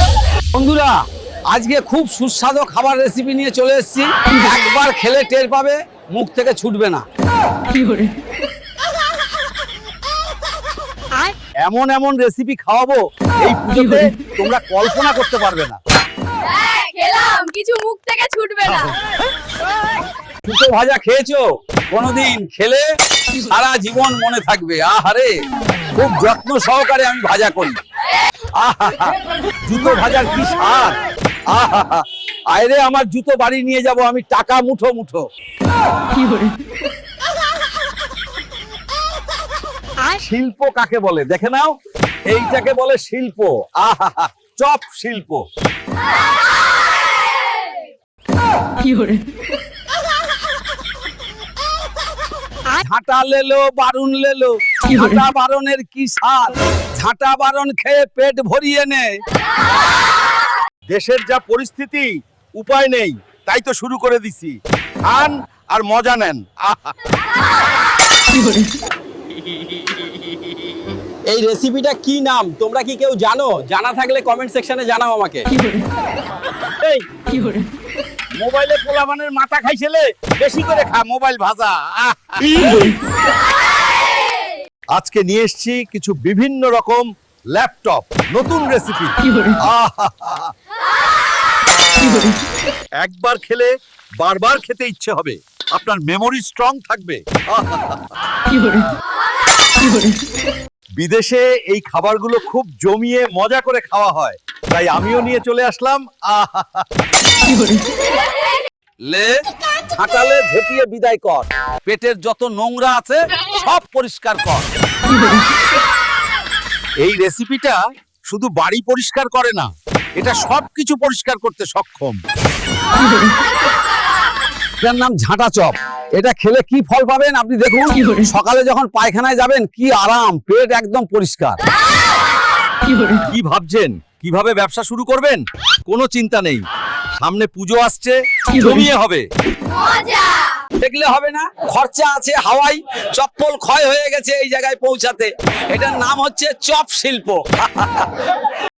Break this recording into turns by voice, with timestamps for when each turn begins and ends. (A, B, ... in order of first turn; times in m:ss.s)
0:00.5-0:01.0 A
0:01.5-0:07.0 A
0:11.6-0:15.8 A
0:16.5-0:19.0 B
0:20.4-0:22.8 A
0:23.4-0:25.3 A
0:26.0-0:27.8 A
0:28.6-0:31.0 A
0:31.5-0:35.2 A
0:40.1-0:41.7 A
0:42.3-0:45.4 A
0:52.7-0:59.2 A
1:00.9-1:04.5 C
1:03.7-1:04.4 A
1:05.1-1:06.8 C
1:05.2-1:06.3 A
1:11.3-1:15.5 A
1:18.4-1:22.9 A
1:25.0-1:29.1 C
1:28.5-1:28.9 A
1:29.7-1:30.0 A
1:29.9-1:30.3 C
1:33.0-1:38.0 C
1:41.0-1:46.9 C
1:49.1-1:49.4 A
1:49.9-1:54.7 A
1:57.0-1:57.8 C
1:57.3-1:57.6 A
1:58.3-1:59.7 C
2:00.2-2:02.2 C
2:04.8-2:11.6 A
2:13.3-2:16.6 C
2:17.2-2:19.2 C
2:20.8-2:28.2 A